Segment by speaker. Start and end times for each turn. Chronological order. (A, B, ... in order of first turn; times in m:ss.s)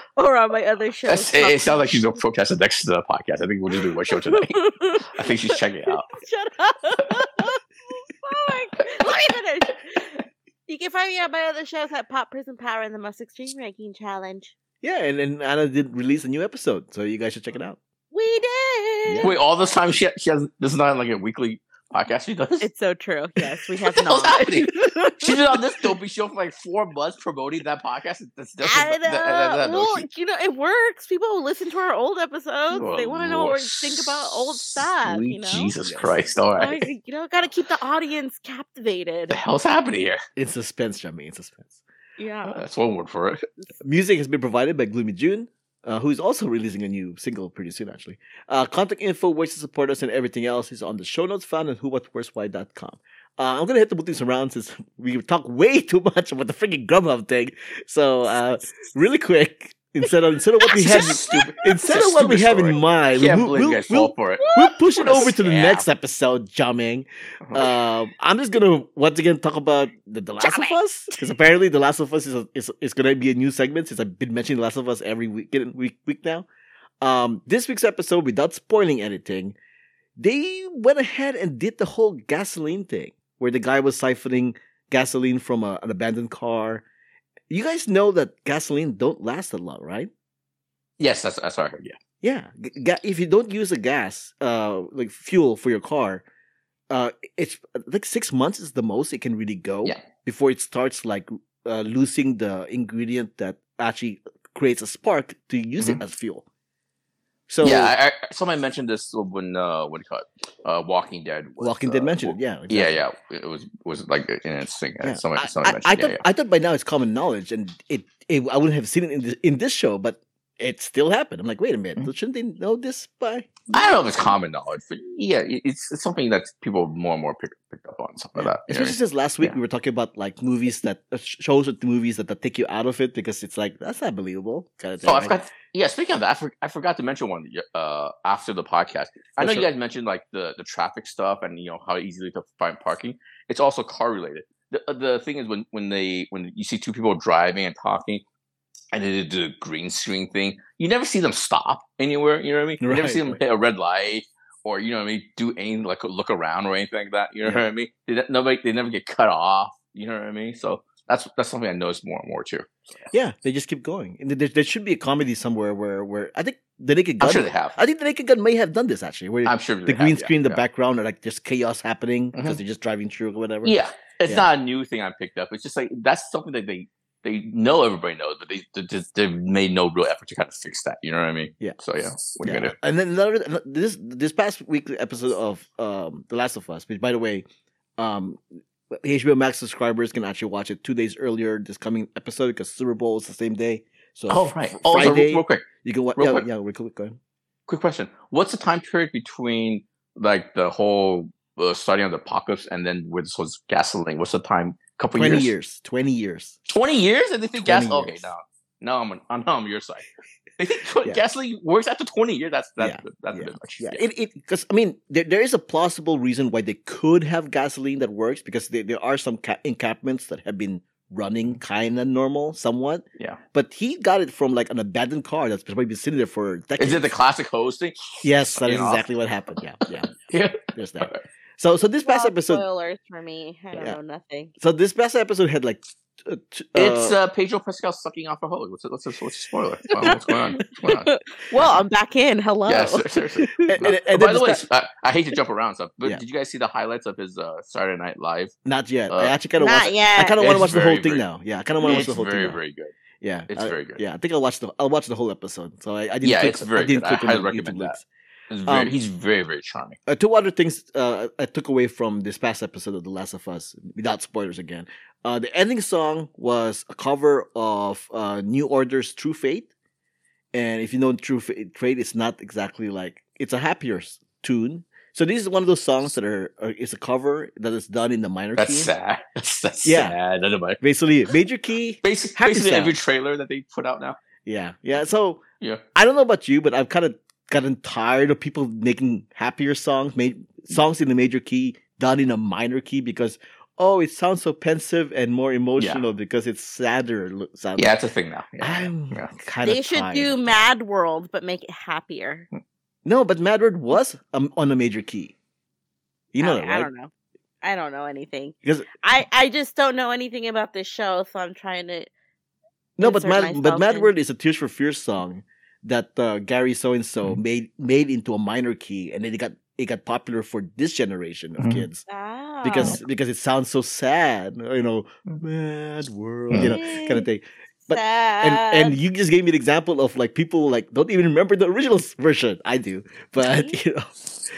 0:00.2-0:02.0 A
0:01.0-0:06.1 B
0:04.1-0:14.5 A
0:14.8-0:17.8 C
0:18.1-0:19.4 A
0:19.0-0:19.3 C
0:19.2-0:22.7 B
0:22.6-0:25.6 A
0:23.8-0:30.0 B
0:28.6-0:35.7 A
0:32.7-0:36.8 B
0:35.8-0:36.2 C
0:36.6-0:39.4 A
0:39.3-0:40.2 B
0:40.4-0:41.8 C
0:42.2-0:42.6 A
0:42.4-0:43.4 B
0:43.8-1:16.5 C
1:00.6-1:01.5 A
1:00.7-1:05.8 B
1:04.4-1:05.0 A
1:07.4-1:07.7 B
1:10.4-1:10.8 A
1:17.0-1:19.6 C
1:20.2-1:26.8 C
1:27.5-1:30.1 C
1:31.0-1:32.0 B
1:32.2-1:36.2 C
1:36.9-1:46.4 C
1:47.5-1:47.9 C
1:47.6-1:56.2 B
1:51.6-1:53.0 C
1:55.0-2:03.7 C
2:03.7-2:09.6 B
2:08.4-2:15.4 C
2:15.0-2:28.2 B
2:19.4-2:19.6 C
2:28.9-2:42.8 B
2:32.8-2:33.4 C
2:43.1-2:54.5 C
2:47.2-2:47.8 B
2:49.4-2:50.6 B
2:52.3-2:52.6 B
2:53.6-3:02.7 B
3:02.4-3:07.4 C
3:08.0-3:17.2 C
3:14.3-3:16.5 B
3:17.7-3:25.5 B
3:25.1-3:26.6 C
3:26.7-3:30.0 B
3:27.6-3:28.3 C
3:30.6-3:34.0 B
3:32.8-3:47.1 C
3:46.8-3:51.2 B
3:48.2-3:50.1 C
3:50.6-3:52.6 C
3:52.0-3:54.5 A
3:53.7-3:54.0 C
3:54.6-3:57.2 C
3:56.8-4:01.1 B
4:00.0-4:03.8 A
4:02.6-4:08.5 B
4:03.6-4:04.6 C
4:08.6-4:12.6 C
4:09.1-4:09.4 B
4:09.6-4:10.4 A
4:10.4-4:11.2 B
4:11.8-4:13.0 B
4:13.2-4:18.0 C
4:13.5-4:14.0 B
4:16.2-4:18.0 B
4:18.5-4:20.0 B
4:18.7-4:18.9 C
4:20.0-4:29.7 C
4:30.5-4:38.9 C
4:38.6-4:40.8 B
4:39.8-4:40.2 C
4:40.8-4:43.0 C
4:42.0-4:44.2 B
4:44.4-4:45.4 C
4:45.9-4:58.0 C
4:55.8-4:56.0 B
4:57.8-4:59.4 B
4:58.6-5:00.6 C
4:59.6-5:02.4 A
5:03.0-5:05.3 C
5:06.3-5:06.9 C
5:06.4-5:07.1 A
5:07.6-5:12.1 A
5:13.0-5:22.0 C
5:13.0-5:14.1 A
5:21.6-5:21.8 B
5:22.1-5:23.0 A
5:22.6-5:34.1 C
5:26.5-5:26.8 B
5:26.6-5:27.3 A
5:27.9-5:28.9 A
5:33.4-5:33.7 A